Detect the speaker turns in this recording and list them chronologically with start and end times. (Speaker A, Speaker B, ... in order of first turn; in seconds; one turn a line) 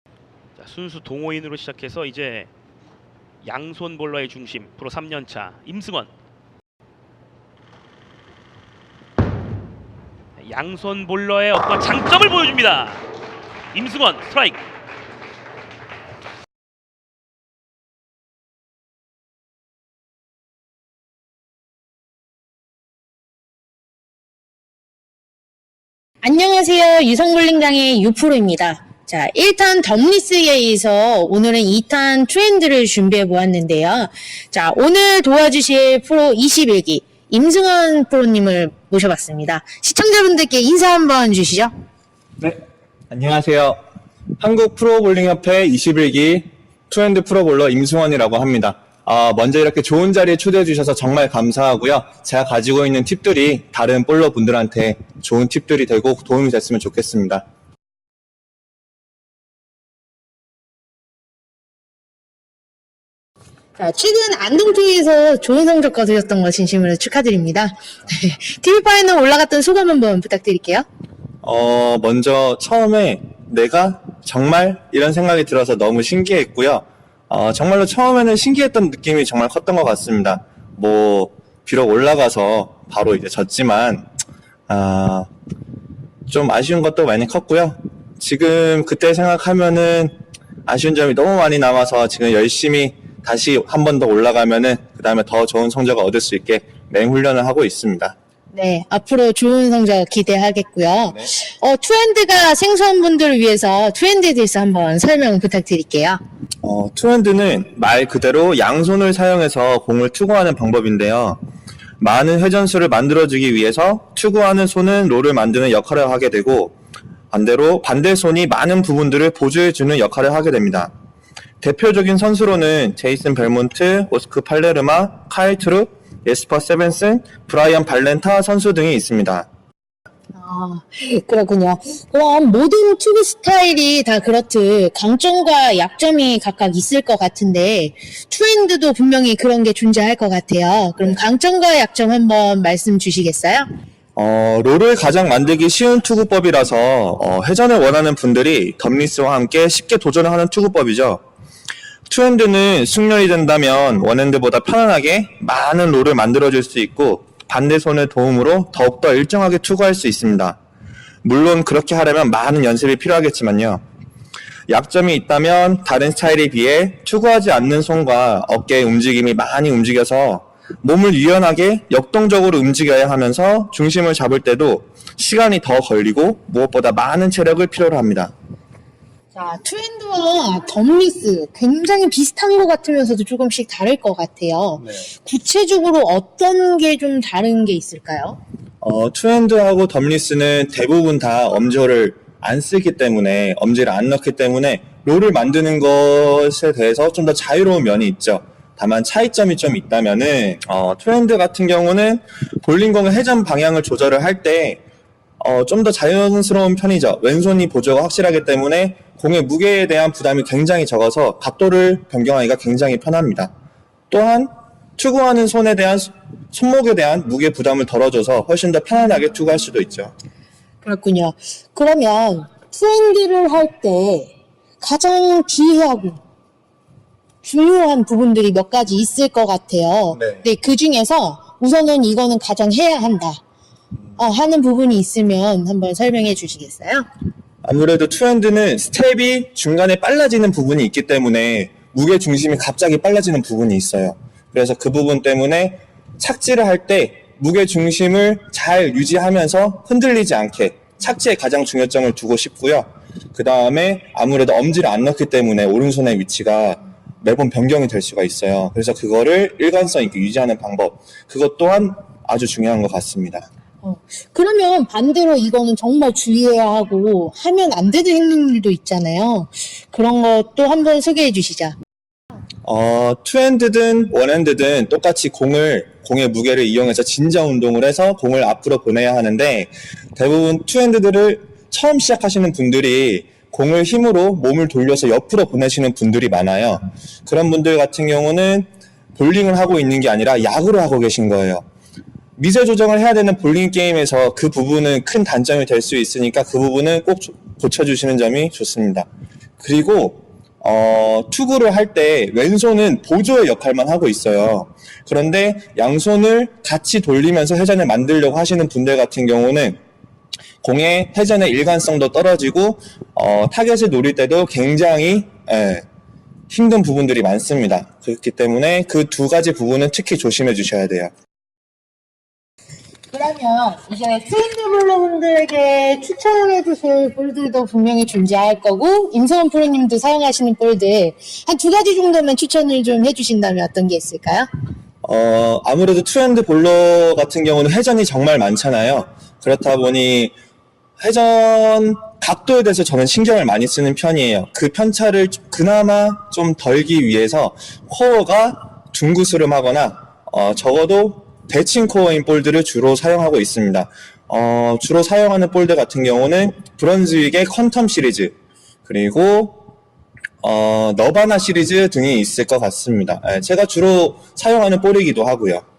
Speaker A: 0.6-2.5
Speaker A: 3.4-6.1
Speaker A: 10.4-13.0
Speaker A: 13.7-14.6
Speaker B: 26.2-41.7
Speaker C: 43.1-43.8
Speaker C: 44.4-57.4
Speaker B: 63.8-70.9
Speaker C: 71.4-84.0
Speaker C: 84.7-85.3
Speaker C: 86.3-90.1
Speaker C: 90.7-98.2
Speaker B: 98.5-106.2
Speaker C: 106.6-111.4
Speaker C: 112.0-116.8
Speaker C: 117.3-120.9
Speaker C: 121.6-129.5
Speaker B: 130.3-143.7
Speaker C: 144.2-151.2
Speaker C: 152.1-160.6
Speaker C: 161.2-163.8
Speaker C: 164.7-178.3
Speaker B: 179.3-188.4
Speaker C: 188.8-204.8
Speaker C: 205.4-213.5
Speaker C: 214.1-220.1
Speaker B: 220.8-226.2
Speaker B: 227.4-233.4
Speaker B: 234.2-237.1
Speaker C: 237.6-263.5
Speaker B: 263.8-271.8
Speaker C: 272.6-291.6
Speaker C: 292.4-299.1
Speaker C: 299.6-309.8
Speaker C: 310.6-315.9
Speaker C: 316.5-321.1
Speaker B: 323.1-334.5
Speaker C: 335.0-340.3
Speaker C: 341.0-358.3
Speaker C: 358.9-359.7
Speaker C: 360.4-365.6